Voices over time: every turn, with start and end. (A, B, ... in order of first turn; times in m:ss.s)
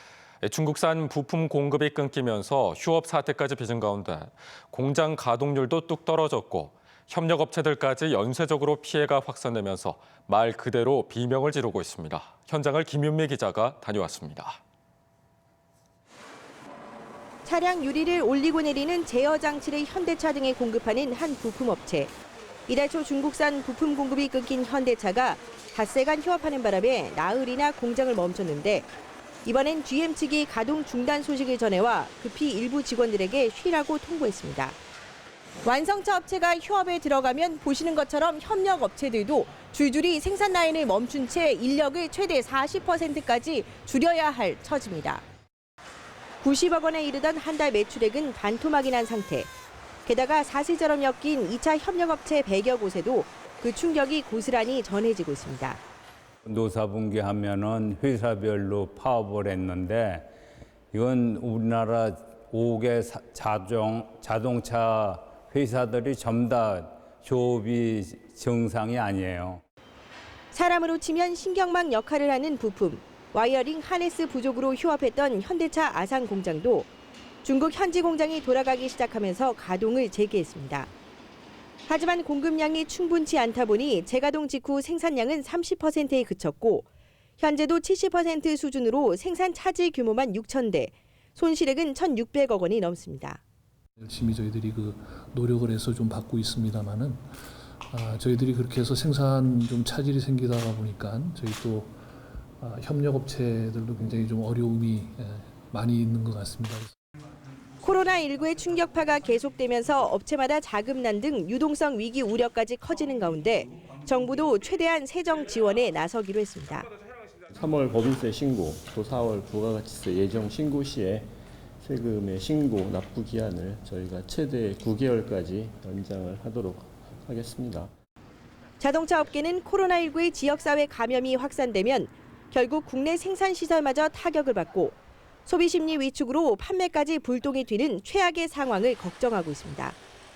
0:00.4-0:14.6 A
0:17.4-0:22.1 B
0:22.7-0:28.9 B
0:29.4-0:34.8 B
0:35.6-0:45.2 B
0:46.4-0:49.5 B
0:50.0-0:55.8 B
0:56.4-1:00.3 C
1:00.9-1:09.6 C
1:10.5-1:16.9 B
1:17.4-1:20.9 B
1:21.9-1:26.9 B
1:27.4-1:33.4 B
1:34.0-1:37.4 D
1:37.9-1:42.1 D
1:42.6-1:46.9 D
1:47.8-1:56.9 B
1:57.5-2:01.3 E
2:01.8-2:07.9 E
2:08.8-2:20.0 B